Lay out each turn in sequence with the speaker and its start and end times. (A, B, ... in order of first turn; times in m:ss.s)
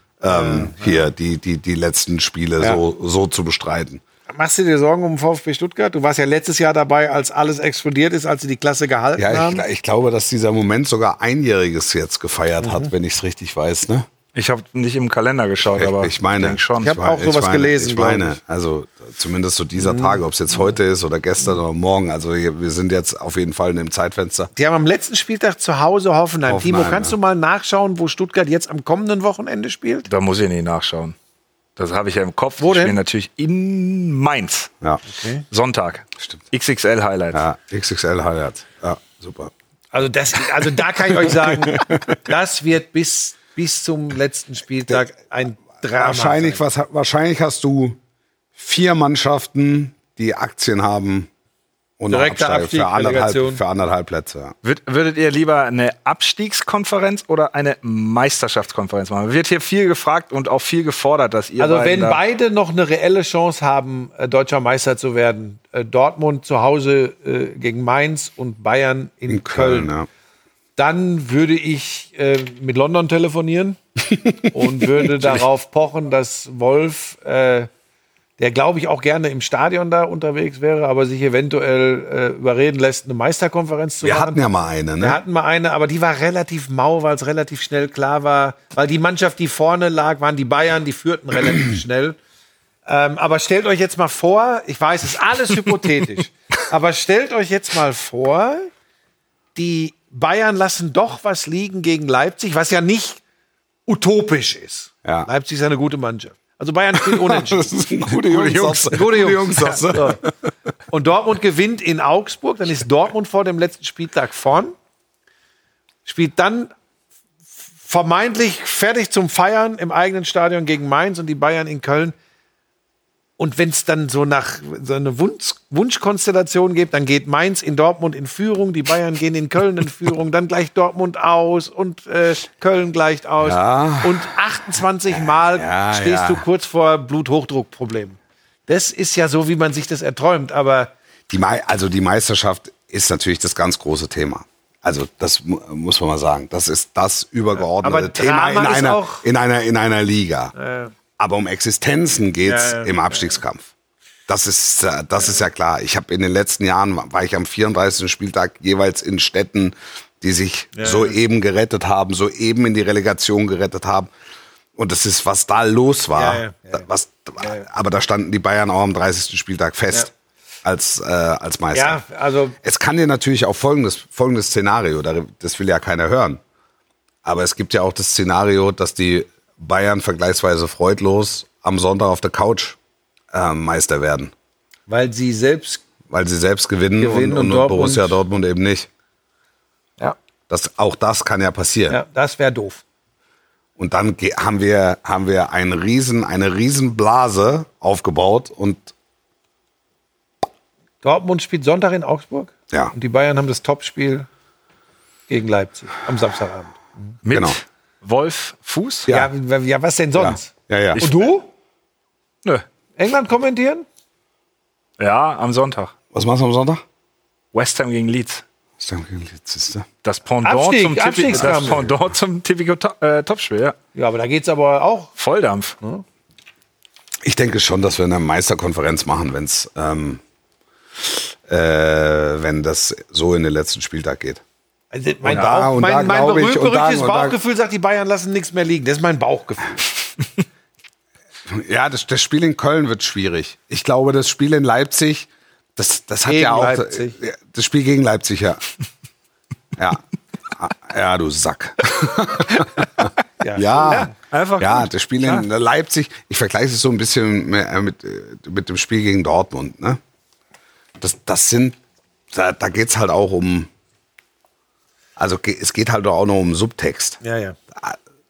0:00.2-0:04.0 A
0:00.3-0:01.1 B
0:04.3-0:09.6 B
0:09.2-0:14.1 A
0:12.6-0:12.9 B
0:14.4-0:17.0 C
0:15.6-0:24.5 A
0:16.8-0:18.4 B
0:19.8-0:20.2 B
0:24.6-0:30.1 B
0:26.5-0:27.2 A
0:30.1-0:31.2 C
0:31.8-0:34.7 C
0:32.6-0:33.0 B
0:35.1-0:35.4 B
0:35.5-0:37.4 C
0:37.3-0:39.5 A
0:39.9-0:46.6 B
0:41.2-0:42.1 A
0:46.0-0:48.0 A
0:48.6-0:51.3 A
0:52.0-0:54.5 A
0:52.1-0:53.6 B
0:54.6-1:02.2 C
1:01.6-1:09.9 B
1:09.3-1:10.1 A
1:10.8-1:13.8 B
1:14.1-1:14.5 A
1:14.5-1:17.7 B
1:18.4-1:24.4 B
1:24.0-1:25.2 A
1:25.0-1:32.2 B
1:32.9-1:38.7 B
1:39.6-1:43.2 B
1:43.9-1:50.2 B
1:45.0-1:45.3 A
1:47.0-1:50.3 A
1:50.9-1:54.8 B
1:56.1-1:56.7 B
1:57.8-2:02.2 B
2:03.4-2:20.9 B
2:13.4-2:14.3 A
2:15.1-2:16.4 A
2:21.3-2:30.6 A
2:27.7-2:29.2 B
2:30.6-2:30.9 B
2:31.2-2:33.7 A
2:32.4-2:33.3 B
2:34.3-2:44.1 A
2:40.7-2:41.2 B
2:44.8-2:50.1 A
2:46.2-2:46.9 B
2:47.4-2:47.7 B
2:50.6-2:52.0 A
2:51.7-2:52.6 B
2:52.6-2:56.4 A
2:57.2-3:02.8 A
3:03.3-3:04.3 A
3:04.9-3:05.8 B
3:06.1-3:08.9 A
3:07.0-3:08.2 B
3:10.5-3:12.0 A
3:11.9-3:12.8 B
3:13.8-3:18.9 A
3:21.0-3:24.3 B
3:25.3-3:27.2 B
3:27.2-3:29.1 C
3:27.3-3:27.6 A
3:29.1-3:31.5 B
3:30.2-3:31.0 A
3:31.0-3:31.2 C
3:33.0-3:33.9 B
3:35.0-3:35.9 C
3:36.1-3:36.8 A
3:37.5-3:38.4 C
3:38.8-3:39.9 A
3:40.0-3:43.8 C
3:40.4-3:41.9 B
3:41.4-3:41.9 A
3:44.0-3:45.1 B
3:45.2-3:45.8 C
3:47.2-3:50.2 A
3:51.0-3:54.4 A
3:54.9-3:59.8 B
3:55.2-3:57.4 A
4:01.5-4:08.6 A
4:06.3-4:07.2 B
4:09.8-4:20.0 A
4:13.4-4:14.1 B
4:13.9-4:15.5 C
4:21.0-4:21.8 A
4:22.3-4:23.7 A
4:25.2-4:27.2 A
4:27.2-4:27.6 B